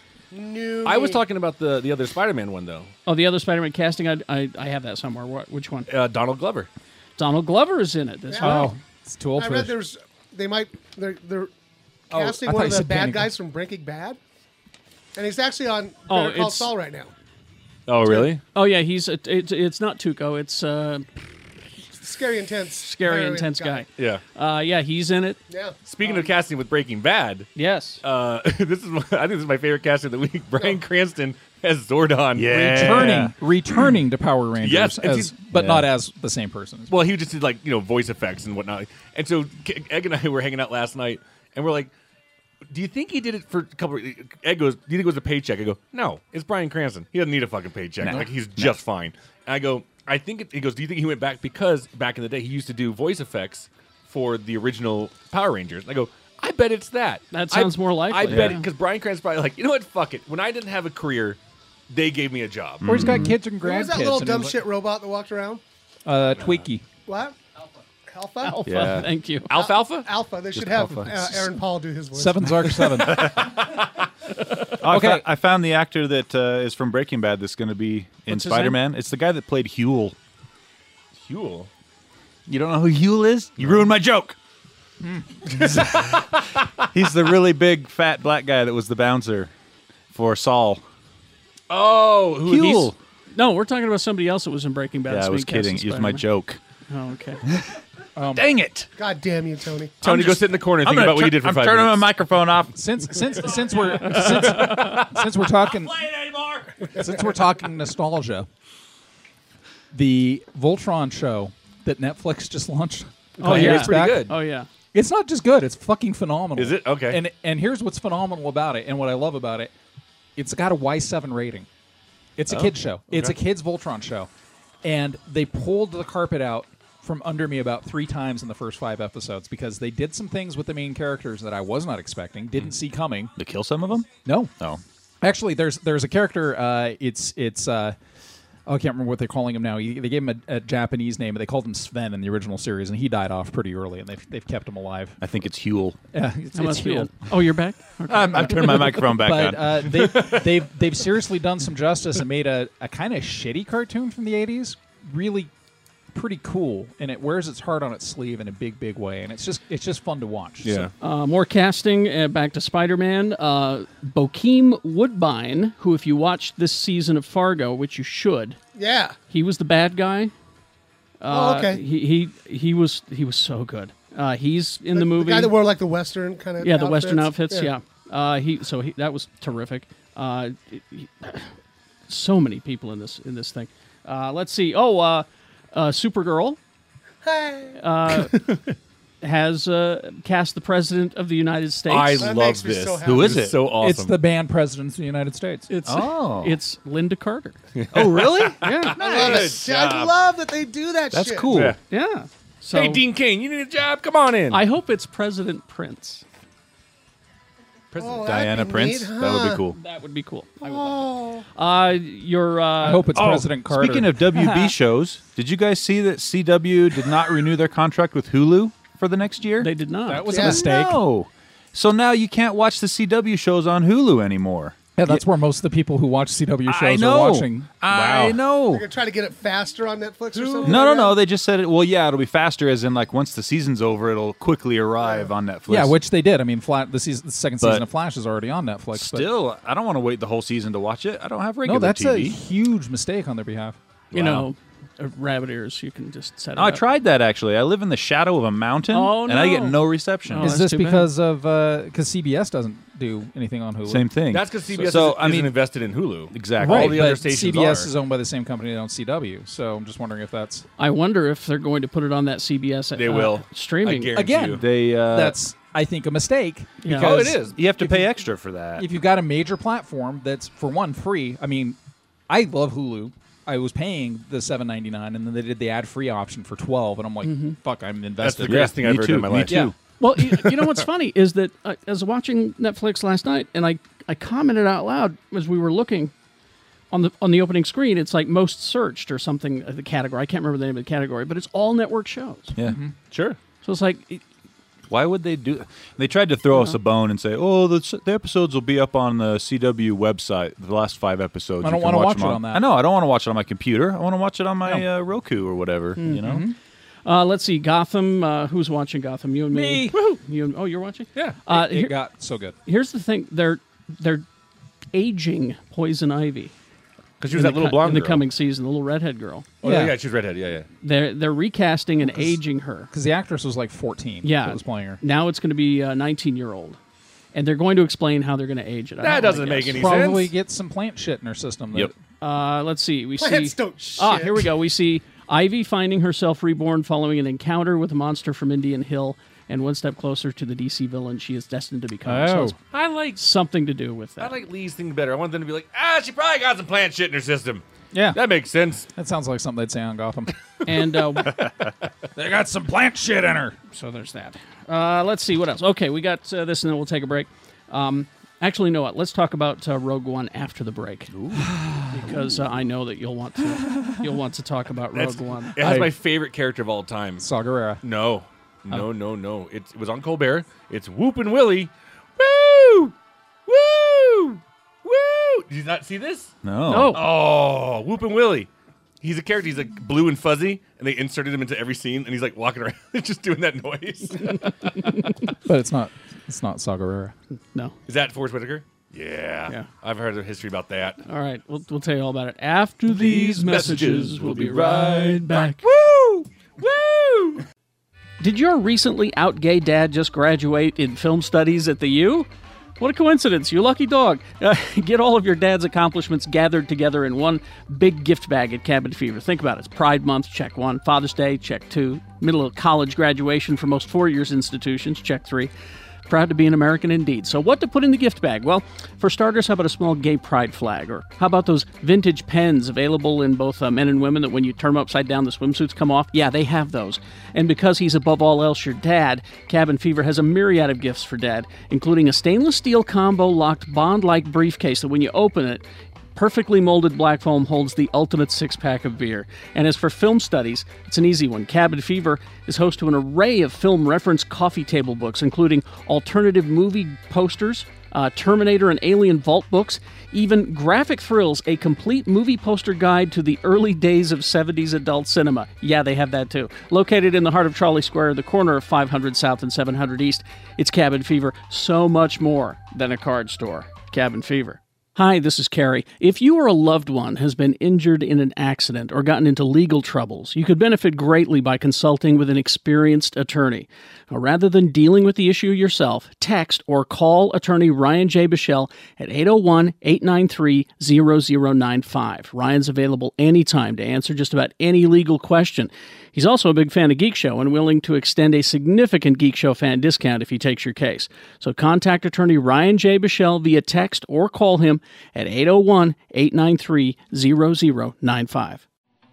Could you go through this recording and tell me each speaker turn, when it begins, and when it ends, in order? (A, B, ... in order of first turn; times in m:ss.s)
0:00.3-0:01.2 A
0:00.8-0:02.9 B
0:03.1-0:05.9 C
0:05.9-0:06.7 B
0:07.2-0:08.8 C
0:08.3-0:08.7 A
0:08.4-0:09.8 D
0:09.4-0:11.5 A
0:12.1-0:13.3 D
0:12.1-0:14.2 A
0:15.2-0:17.1 A
0:16.1-0:16.7 C
0:17.9-0:18.4 B
0:18.5-0:21.1 C
0:22.0-0:23.9 A
0:22.8-0:25.4 C
0:25.5-0:26.3 A
0:25.8-0:27.5 B
0:27.6-0:28.0 C
0:28.0-0:33.3 B
0:32.4-0:33.4 E
0:32.7-0:36.9 D
0:34.6-0:35.3 B
0:35.5-0:35.9 E
0:36.9-0:41.9 B
0:42.7-1:01.4 B
0:48.0-0:48.7 E
0:57.3-0:58.6 C
0:58.3-0:58.6 E
1:01.9-1:02.9 B
1:02.8-1:03.4 E
1:02.8-1:04.6 D
1:03.6-1:05.6 A
1:06.1-1:06.9 D
1:07.1-1:07.4 A
1:08.1-1:08.8 A
1:08.4-1:09.5 C
1:08.6-1:09.1 E
1:09.5-1:10.1 B
1:09.5-1:12.8 A
1:10.5-1:11.3 E
1:12.1-1:13.4 D
1:13.2-1:13.7 B
1:14.8-1:20.2 E
1:14.9-1:15.2 D
1:18.3-1:18.8 C
1:21.2-1:21.7 B
1:22.5-1:24.4 E
1:25.6-1:26.2 B
1:26.9-1:29.5 E
1:30.1-1:30.8 E
1:31.7-1:32.9 B
1:32.4-1:33.0 E
1:33.3-1:36.2 C
1:35.1-1:36.6 E
1:36.9-1:37.4 C
1:38.2-1:38.5 D
1:38.3-1:38.9 E
1:39.0-1:40.0 A
1:40.0-1:42.1 B
1:40.0-1:43.7 E
1:42.8-1:46.0 D
1:44.1-1:45.1 B
1:45.8-1:46.8 E
1:47.0-1:48.5 D
1:49.9-1:54.4 D
1:53.4-1:54.7 C
1:53.4-1:54.3 B
1:54.9-1:59.7 D
1:56.6-1:57.2 B
2:00.4-2:01.7 D
2:02.4-2:04.3 D
2:02.5-2:03.4 B
2:04.8-2:13.3 D
2:13.4-2:14.8 E
2:14.2-2:14.5 D
2:15.2-2:18.0 D
2:18.7-2:25.2 D
2:25.2-2:26.0 E
2:26.1-2:27.2 D
2:26.5-2:29.0 C
2:28.1-2:29.9 E
2:28.3-2:35.5 D
2:36.1-2:40.9 D
2:40.6-2:40.9 B
2:41.0-2:48.6 C
2:48.8-2:49.2 A
2:49.3-2:50.3 C
2:51.2-2:55.5 C
2:51.3-2:51.8 A
2:54.9-2:57.7 A
2:56.6-3:01.5 C
3:02.1-3:06.6 C
3:07.2-3:07.8 A
3:07.8-3:08.4 C
3:09.2-3:12.3 C
3:11.9-3:14.2 B
3:12.2-3:13.6 A
3:13.0-3:13.6 E
3:13.8-3:15.7 D
3:15.7-3:17.6 C
3:15.9-3:16.6 E
3:17.8-3:20.2 B
3:17.9-3:19.5 E
3:18.6-3:19.0 C
3:19.0-3:21.5 A
3:21.1-3:21.8 E
3:21.5-3:21.8 B
3:21.9-3:23.0 C
3:22.7-3:24.6 B
3:24.5-3:26.2 C
3:27.9-3:28.4 B
3:28.0-3:29.7 A
3:28.2-3:29.8 E
3:29.8-3:33.1 C
3:30.6-3:31.4 A
3:32.8-3:34.2 D
3:33.1-3:39.7 E
3:34.4-3:34.6 C
3:39.6-3:40.5 C
3:40.1-3:41.0 D
3:40.2-3:45.2 E
3:40.3-3:40.6 A
3:45.0-3:48.3 D
3:46.7-3:48.9 E
3:48.6-3:51.2 A
3:50.6-3:56.0 E
3:55.0-3:55.3 A
3:55.7-3:59.3 D
3:59.0-4:02.4 E
4:01.6-4:03.8 D
4:04.1-4:04.5 E
4:04.1-4:06.9 C
4:06.6-4:10.5 E
4:08.9-4:11.1 C
4:10.4-4:14.1 D
4:13.8-4:15.5 E
4:14.3-4:17.9 B
4:16.3-4:17.1 E
4:16.6-4:20.7 D
4:20.8-4:24.2 C
4:23.0-4:24.6 B
4:24.1-4:28.1 D
4:24.5-4:25.4 E
4:26.8-4:27.2 C
4:26.9-4:27.6 B
4:27.6-4:28.9 E
4:28.8-4:31.8 D
4:32.3-4:38.8 D
4:37.2-4:37.6 C
4:38.2-4:39.7 B
4:38.4-4:39.8 E
4:39.4-4:39.7 D
4:40.0-4:46.1 C
4:46.9-4:52.6 C
4:52.6-4:52.9 D
4:53.1-4:53.4 B
4:53.6-4:54.2 C
4:54.9-5:06.4 E
5:01.6-5:02.6 D
5:06.0-5:06.4 C
5:06.2-5:06.6 D
5:07.0-5:12.0 C
5:09.5-5:10.1 D
5:11.5-5:12.6 D
5:12.7-5:14.2 C
5:14.9-5:16.5 C
5:17.2-5:18.2 B
5:17.3-5:19.5 C
5:19.6-5:20.7 B
5:19.6-5:20.0 D
5:20.8-5:22.9 C
5:22.9-5:25.0 D
5:24.2-5:26.8 C
5:27.3-5:29.9 C
5:29.0-5:30.3 B
5:29.7-5:31.9 D
5:32.2-5:42.6 C
5:33.2-5:34.5 A
5:42.0-5:42.6 D
5:42.7-5:43.2 B
5:43.2-5:44.4 C
5:44.2-5:48.9 B
5:47.9-5:48.2 D
5:49.0-5:50.3 D
5:50.7-5:51.4 C
5:52.2-5:53.6 D
5:53.7-6:01.1 C
6:01.3-6:02.4 D
6:01.9-6:05.9 C
6:04.9-6:07.2 B
6:05.6-6:05.9 D
6:07.2-6:07.8 D
6:07.8-6:12.9 B
6:13.5-6:16.3 B
6:16.4-6:17.0 E
6:16.7-6:17.0 C
6:16.9-6:18.5 B
6:19.0-6:24.8 B
6:24.3-6:25.1 C
6:25.5-6:27.1 D
6:27.9-6:31.0 B
6:31.0-6:35.6 C
6:32.9-6:37.4 B
6:38.2-6:42.3 C
6:42.8-6:55.5 C
6:56.1-7:15.6 C
7:16.2-8:18.6 C